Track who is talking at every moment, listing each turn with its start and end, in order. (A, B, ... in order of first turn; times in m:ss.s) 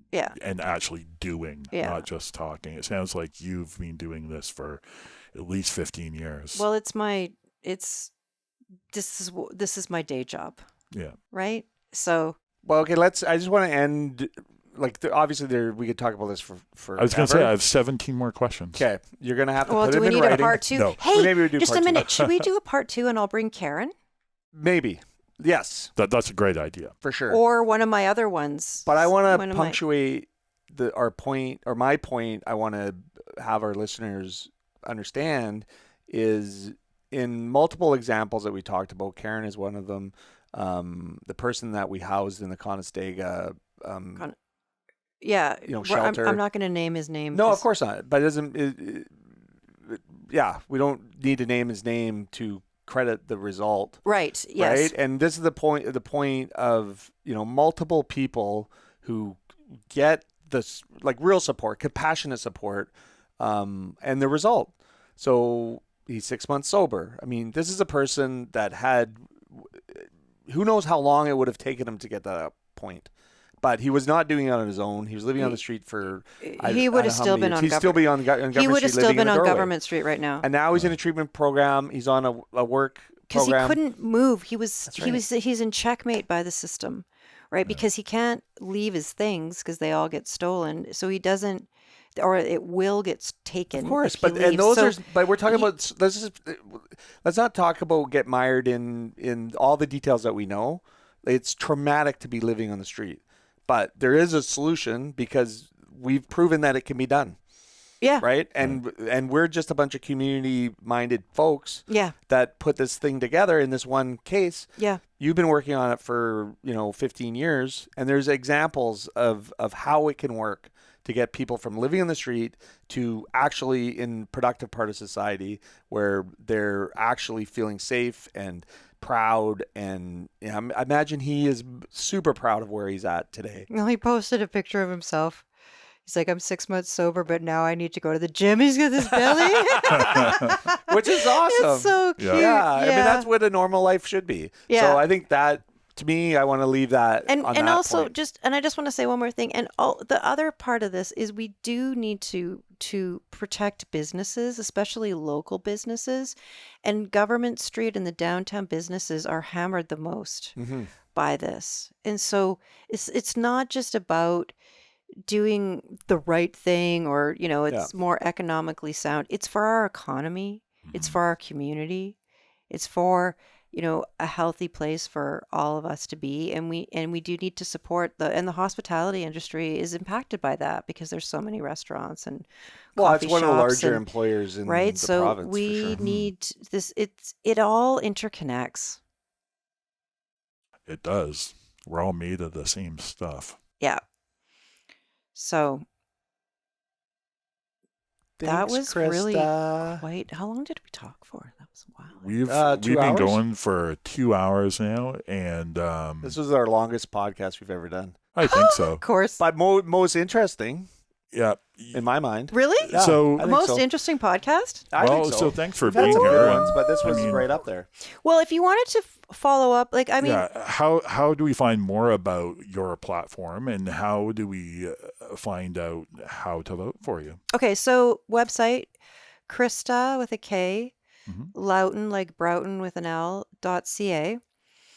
0:00.3-0:04.8 A
0:01.7-0:02.1 B
0:05.3-0:06.6 A
0:06.5-0:08.1 B
0:08.9-0:10.6 B
0:11.3-0:12.4 B
0:12.6-0:17.5 C
0:17.0-0:18.8 A
0:18.7-0:22.2 C
0:19.6-0:23.9 B
0:20.2-0:21.0 A
0:22.0-0:22.4 A
0:24.5-0:25.9 C
0:26.0-0:26.9 A
0:27.0-0:27.4 C
0:27.3-0:29.8 B
0:28.8-0:44.2 C
0:45.2-0:47.6 B
0:45.6-0:46.4 C
0:47.3-0:49.1 C
0:49.8-0:54.0 C
0:54.0-0:54.9 B
0:54.6-1:13.1 C
1:13.6-1:19.7 C
1:16.4-1:20.4 B
1:20.4-1:23.8 C
1:23.3-1:35.7 B
1:24.9-1:25.2 C
1:33.7-1:47.4 C
1:48.0-1:48.2 B
1:48.2-2:13.7 C
1:51.9-1:52.1 B
2:13.7-2:15.4 B
2:16.0-2:23.3 B
2:19.1-2:28.1 C
2:19.9-2:20.6 A
2:22.2-2:22.4 A
2:24.7-2:25.0 B
2:27.3-2:40.6 B
2:40.6-2:40.9 C
2:41.1-2:44.5 B
2:45.2-2:52.2 B
2:50.9-2:51.2 A
2:52.7-3:04.0 B
3:03.0-3:06.0 C
3:04.6-3:09.0 B
3:06.0-3:06.3 A
3:10.8-3:13.6 A
3:15.3-3:15.8 B
3:18.4-3:20.0 C
3:18.4-3:22.2 B
3:22.2-3:26.4 A
3:22.4-3:23.4 C
3:26.2-3:28.2 C
3:28.3-3:29.0 A
3:28.4-3:29.4 B
3:29.4-3:30.9 C
3:31.3-3:32.0 A
3:31.9-3:33.8 C
3:32.5-3:34.9 B
3:32.8-3:33.5 A
3:34.9-3:37.9 C
3:35.0-3:37.5 A
3:36.0-3:36.5 B
3:38.2-3:40.4 B
3:40.2-3:47.4 A
3:47.5-3:48.9 B
3:49.5-3:50.9 B
3:51.3-3:51.5 A
3:51.5-3:54.4 B